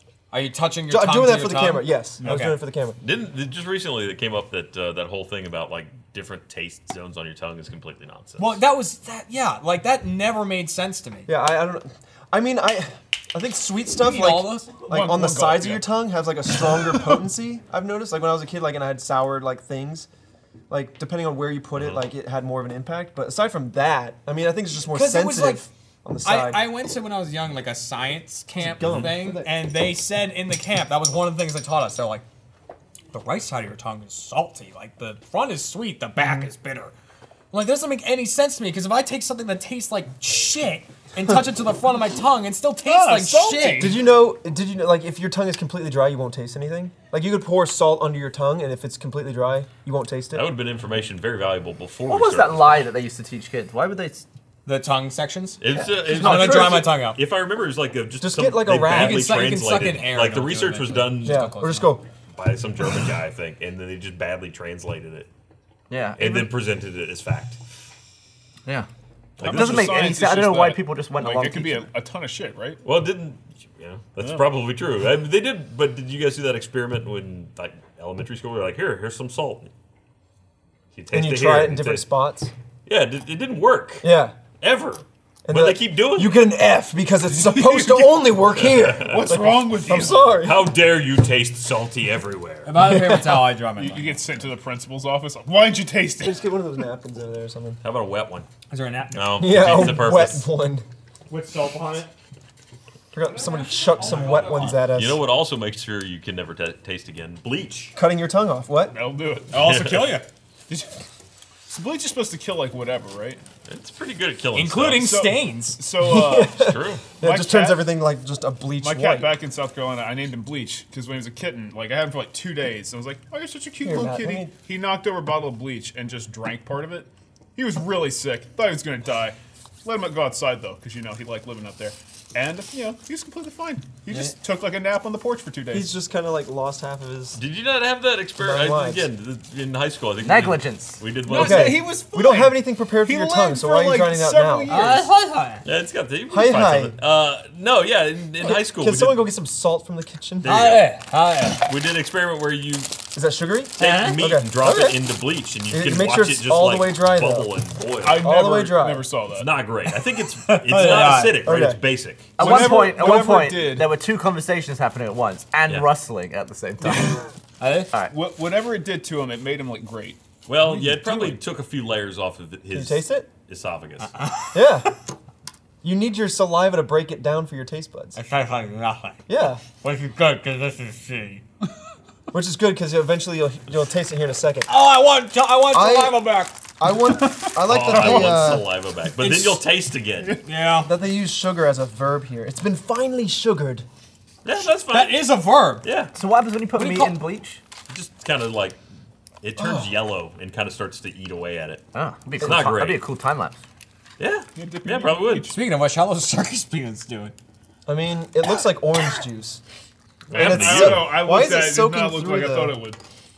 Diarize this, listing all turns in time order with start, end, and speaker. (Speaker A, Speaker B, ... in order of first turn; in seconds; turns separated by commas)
Speaker A: 0.3-2.5, Speaker B: 0.9-3.0, Speaker C: 2.2-2.5, Speaker D: 3.0-8.6, Speaker A: 8.4-11.3, Speaker B: 11.3-20.1, Speaker A: 14.0-14.7, Speaker C: 14.9-15.8, Speaker B: 20.7-26.7, Speaker D: 21.7-22.0, Speaker A: 24.9-25.7, Speaker A: 26.2-32.2, Speaker B: 28.6-29.5, Speaker A: 33.1-36.9, Speaker A: 37.5-44.0, Speaker C: 42.9-44.0, Speaker B: 43.8-50.5, Speaker D: 50.3-52.9, Speaker E: 52.1-54.2, Speaker A: 54.6-57.2, Speaker D: 55.6-61.5, Speaker E: 55.7-56.8, Speaker B: 58.2-59.5, Speaker A: 58.9-62.0, Speaker B: 61.2-62.0, Speaker D: 62.4-65.3, Speaker E: 65.9-66.5, Speaker D: 66.2-67.6, Speaker D: 69.4-70.1, Speaker E: 69.4-71.9, Speaker C: 69.4-72.8, Speaker D: 72.8-79.7, Speaker C: 74.2-74.5, Speaker D: 80.9-82.1, Speaker B: 81.1-82.5, Speaker D: 82.8-86.4, Speaker B: 84.0-84.3, Speaker B: 85.4-90.7, Speaker C: 87.3-88.2, Speaker D: 88.5-89.4, Speaker C: 89.0-90.3, Speaker D: 90.4-92.7, Speaker A: 92.7-94.2, Speaker B: 92.7-93.5, Speaker C: 93.7-96.5, Speaker B: 96.2-97.8, Speaker D: 97.8-98.5, Speaker A: 98.7-99.5, Speaker D: 99.1-100.5, Speaker B: 99.3-100.8, Speaker A: 101.3-102.1, Speaker B: 103.1-105.2, Speaker A: 103.2-104.8, Speaker D: 104.8-108.0, Speaker B: 108.0-109.0, Speaker C: 108.9-109.6, Speaker A: 109.5-110.2, Speaker D: 109.5-110.2, Speaker C: 111.7-113.4, Speaker D: 113.7-115.2, Speaker A: 114.5-115.8, Speaker C: 115.0-116.7, Speaker B: 116.0-119.4, Speaker D: 116.6-117.0, Speaker C: 117.2-117.9, Speaker C: 118.8-135.9, Speaker B: 123.8-124.5, Speaker B: 135.7-137.4, Speaker D: 137.3-141.8, Speaker B: 138.4-139.1, Speaker E: 140.2-141.0, Speaker C: 141.2-145.1, Speaker B: 141.3-144.7, Speaker A: 144.7-145.6, Speaker D: 145.6-149.3, Speaker B: 146.3-147.0, Speaker B: 148.4-150.6, Speaker D: 150.4-150.9, Speaker A: 150.4-151.7, Speaker D: 151.6-152.9, Speaker B: 153.1-155.0, Speaker D: 153.8-158.3, Speaker A: 153.8-154.2, Speaker B: 155.7-157.5, Speaker C: 158.0-159.5, Speaker B: 158.1-159.1, Speaker D: 159.3-162.4, Speaker A: 160.4-161.4, Speaker B: 161.4-161.8, Speaker C: 162.4-163.9, Speaker E: 162.4-167.2, Speaker A: 167.6-167.9, Speaker C: 168.1-170.2, Speaker D: 170.5-174.1, Speaker B: 172.7-173.3, Speaker A: 174.0-174.8, Speaker B: 174.5-174.9, Speaker B: 175.8-178.2, Speaker A: 178.2-181.4, Speaker B: 179.3-179.6, Speaker B: 182.3-184.7, Speaker A: 184.7-186.5, Speaker B: 185.7-188.7, Speaker C: 187.2-188.1, Speaker D: 187.6-190.4, Speaker A: 189.2-189.5, Speaker A: 190.4-190.9, Speaker B: 190.8-193.8, Speaker D: 194.4-196.1, Speaker A: 194.9-195.8, Speaker E: 196.1-197.6, Speaker A: 196.7-197.2, Speaker D: 197.9-198.8, Speaker D: 199.4-201.8, Speaker B: 199.6-199.9, Speaker E: 201.9-203.6, Speaker D: 202.4-203.0, Speaker B: 202.4-202.7, Speaker D: 204.2-205.5, Speaker C: 204.5-205.6, Speaker A: 205.5-207.3, Speaker B: 207.8-209.6, Speaker D: 210.3-211.2, Speaker C: 210.3-213.0, Speaker B: 210.3-212.8